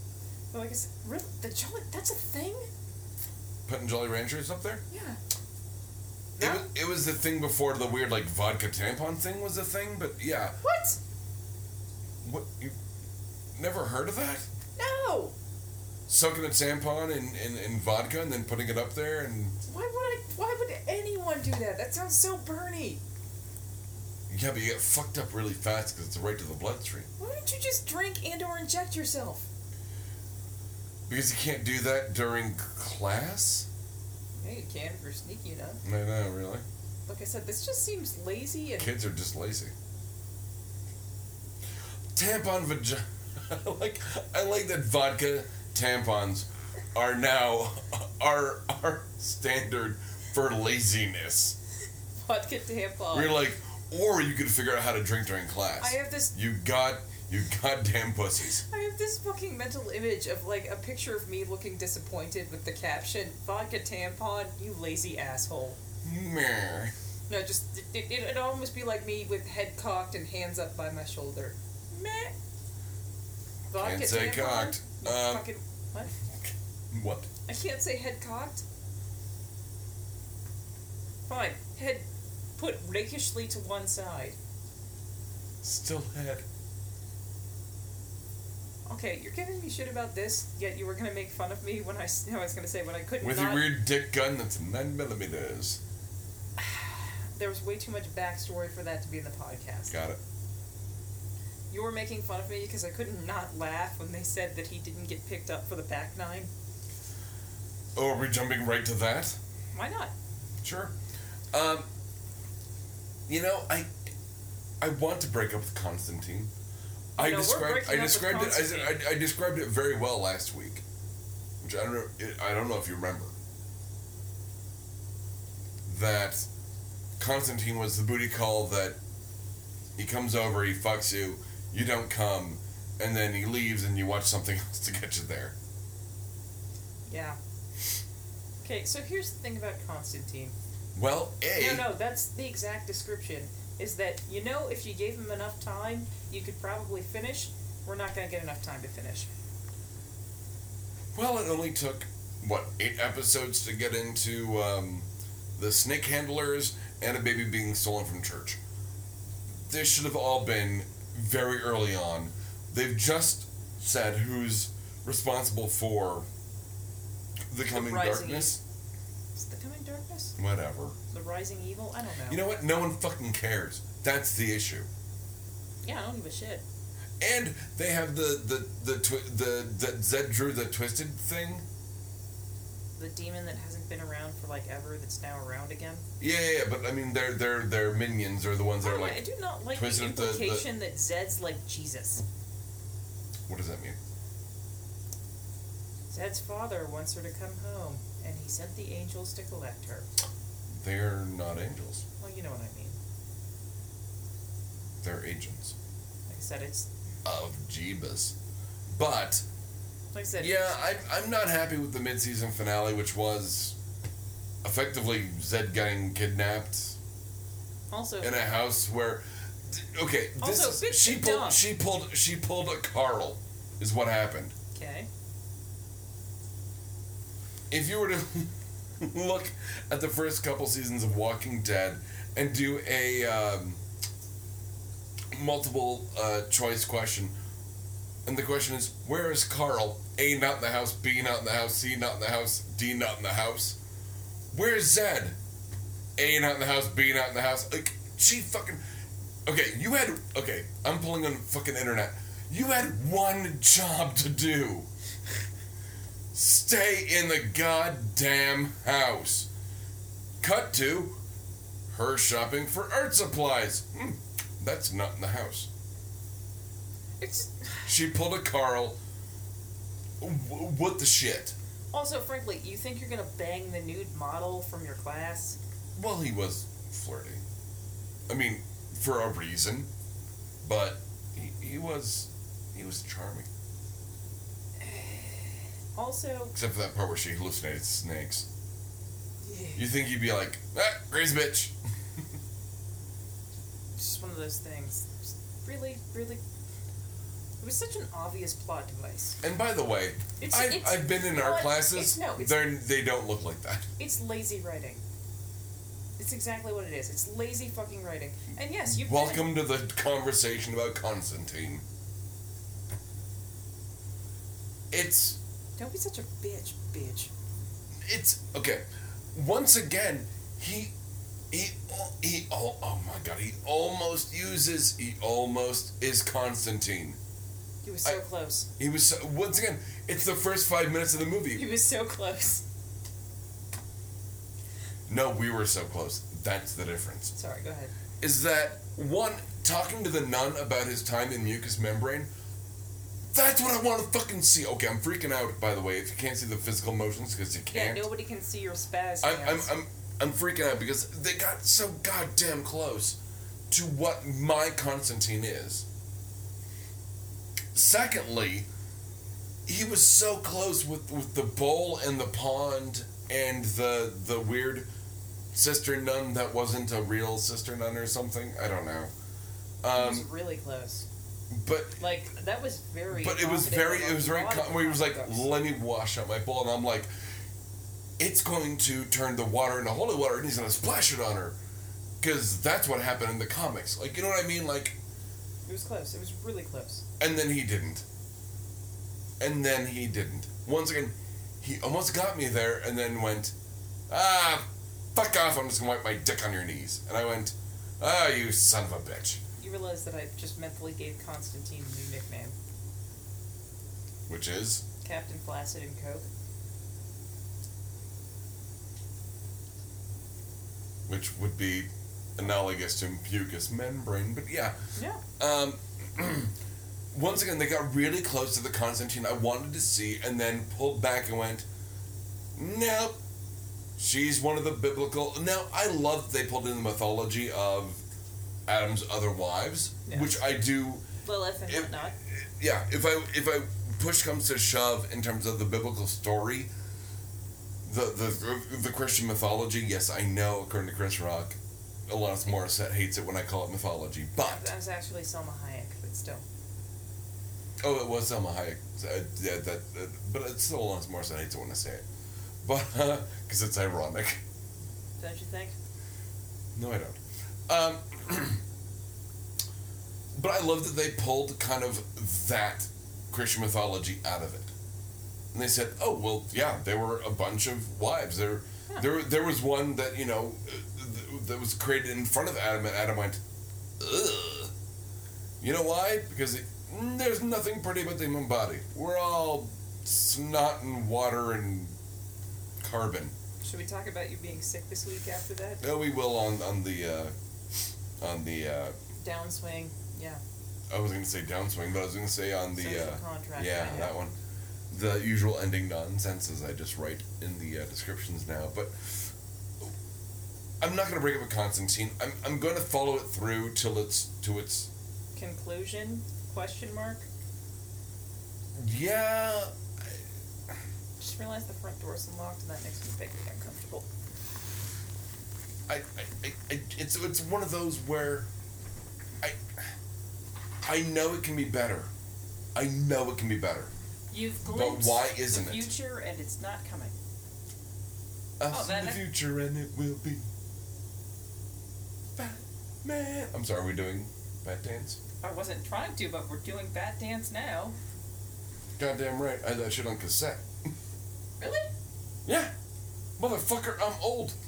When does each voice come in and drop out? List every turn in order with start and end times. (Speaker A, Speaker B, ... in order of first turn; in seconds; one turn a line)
Speaker A: 0.5-2.7
Speaker B: 3.6-4.8
Speaker A: 4.9-5.2
Speaker A: 6.4-6.7
Speaker B: 6.4-10.6
Speaker A: 10.6-11.0
Speaker B: 12.2-12.8
Speaker B: 13.6-14.5
Speaker A: 14.8-15.3
Speaker B: 16.1-19.6
Speaker A: 19.6-23.0
Speaker B: 24.3-27.1
Speaker A: 27.2-29.5
Speaker B: 31.1-33.7
Speaker A: 34.4-35.8
Speaker B: 35.8-36.6
Speaker A: 37.1-38.9
Speaker B: 38.8-39.7
Speaker B: 42.1-51.5
Speaker A: 52.2-53.4
Speaker B: 53.1-58.6
Speaker A: 55.8-56.3
Speaker A: 58.6-65.8
Speaker B: 66.0-66.9
Speaker A: 67.3-72.3
Speaker A: 73.7-76.1
Speaker B: 73.8-75.5
Speaker B: 76.4-77.3
Speaker A: 77.5-78.6
Speaker A: 81.3-82.0
Speaker A: 82.6-84.4
Speaker B: 85.6-86.5
Speaker A: 88.8-93.8
Speaker B: 93.2-95.8
Speaker A: 96.6-100.0
Speaker B: 99.9-100.2
Speaker A: 101.7-106.5
Speaker B: 107.9-109.4
Speaker A: 109.7-110.1
Speaker B: 110.6-110.9
Speaker B: 111.5-111.9
Speaker B: 113.3-113.9
Speaker B: 114.8-116.5
Speaker B: 117.2-120.8
Speaker A: 117.2-119.0
Speaker B: 121.6-123.3
Speaker B: 125.8-126.5
Speaker B: 127.2-129.0
Speaker B: 129.9-135.5
Speaker A: 137.1-137.4
Speaker A: 138.6-140.5
Speaker B: 140.9-141.9
Speaker A: 141.5-149.3
Speaker B: 151.1-158.6
Speaker B: 159.7-166.3
Speaker B: 167.5-168.6
Speaker A: 167.7-168.6
Speaker A: 169.3-170.3
Speaker B: 170.4-170.9
Speaker A: 171.1-172.4
Speaker B: 172.3-174.9
Speaker A: 175.8-176.6
Speaker B: 177.2-181.6
Speaker A: 182.9-186.0
Speaker B: 186.2-189.2
Speaker A: 188.8-192.2
Speaker B: 189.7-190.7
Speaker B: 193.5-194.0
Speaker A: 196.1-200.1
Speaker B: 200.8-202.0
Speaker A: 202.2-202.9
Speaker B: 205.0-205.7
Speaker A: 206.3-206.9
Speaker B: 207.2-208.3
Speaker B: 208.9-209.4
Speaker A: 210.1-211.0
Speaker B: 210.4-213.8
Speaker B: 214.6-217.0
Speaker A: 217.9-218.3
Speaker B: 218.2-224.5
Speaker A: 220.4-221.6
Speaker A: 224.7-225.1
Speaker B: 227.7-233.8
Speaker B: 235.3-237.3
Speaker B: 238.2-243.8
Speaker B: 244.5-245.3
Speaker B: 246.2-248.8
Speaker B: 249.4-254.9
Speaker B: 256.3-259.5
Speaker B: 260.4-261.2
Speaker B: 261.9-265.7
Speaker A: 267.2-267.9
Speaker B: 267.9-269.0
Speaker B: 270.2-271.5
Speaker A: 271.9-275.6
Speaker B: 275.9-277.4
Speaker B: 278.3-279.9
Speaker B: 280.6-283.5
Speaker A: 284.8-286.5
Speaker B: 286.5-288.4
Speaker A: 289.4-289.9
Speaker B: 289.8-291.7
Speaker A: 294.0-296.4
Speaker A: 297.6-299.4
Speaker B: 299.4-303.9
Speaker A: 300.4-302.8
Speaker A: 304.0-305.0
Speaker A: 306.2-309.5
Speaker B: 308.8-311.8
Speaker B: 314.9-315.4
Speaker A: 315.8-317.3
Speaker B: 318.0-320.9
Speaker B: 321.5-327.2
Speaker A: 327.8-328.7
Speaker B: 328.8-331.7
Speaker A: 331.5-332.6
Speaker B: 335.1-337.3
Speaker A: 337.3-337.9
Speaker B: 338.2-342.3
Speaker B: 343.3-348.1
Speaker A: 347.7-349.7
Speaker B: 349.2-353.2
Speaker B: 353.7-355.9
Speaker B: 357.7-358.7
Speaker B: 359.6-364.9
Speaker B: 365.5-369.1
Speaker B: 369.8-370.3
Speaker A: 369.9-371.1
Speaker B: 371.5-372.0
Speaker A: 372.0-375.5
Speaker B: 373.1-377.1
Speaker B: 378.2-381.6
Speaker B: 382.2-385.0
Speaker A: 385.6-387.0
Speaker B: 387.2-388.0
Speaker B: 389.4-393.5
Speaker B: 394.1-399.4
Speaker A: 399.6-402.5
Speaker B: 404.3-404.8
Speaker A: 405.0-406.3
Speaker B: 411.1-414.8
Speaker A: 414.9-415.2
Speaker B: 415.4-416.5
Speaker B: 417.1-421.6
Speaker B: 422.6-423.2
Speaker B: 424.0-428.0
Speaker B: 428.7-431.0
Speaker A: 430.1-430.3
Speaker A: 431.2-432.2
Speaker B: 431.7-436.7
Speaker B: 437.8-444.7
Speaker A: 444.4-446.4
Speaker B: 447.8-452.0
Speaker B: 452.6-454.4
Speaker A: 455.2-455.8
Speaker B: 456.7-458.6
Speaker B: 460.3-464.7
Speaker B: 465.5-473.4
Speaker B: 474.0-474.7
Speaker B: 475.6-481.9
Speaker B: 482.8-483.3
Speaker A: 483.6-485.9
Speaker B: 485.8-487.3
Speaker B: 488.2-488.9
Speaker A: 489.2-490.4
Speaker B: 490.9-494.3
Speaker A: 492.8-494.1
Speaker B: 494.9-499.9
Speaker B: 500.8-504.9
Speaker A: 505.3-507.2
Speaker B: 508.8-510.2
Speaker A: 511.2-514.0
Speaker B: 515.9-518.5
Speaker B: 519.4-519.8
Speaker B: 520.8-522.1
Speaker B: 522.7-523.9
Speaker A: 524.3-527.1
Speaker B: 524.6-525.9
Speaker B: 528.6-530.5
Speaker A: 528.7-529.2
Speaker B: 532.4-535.2
Speaker A: 535.4-538.0
Speaker B: 539.0-540.9
Speaker A: 541.6-541.9
Speaker B: 542.4-542.7
Speaker B: 543.4-544.5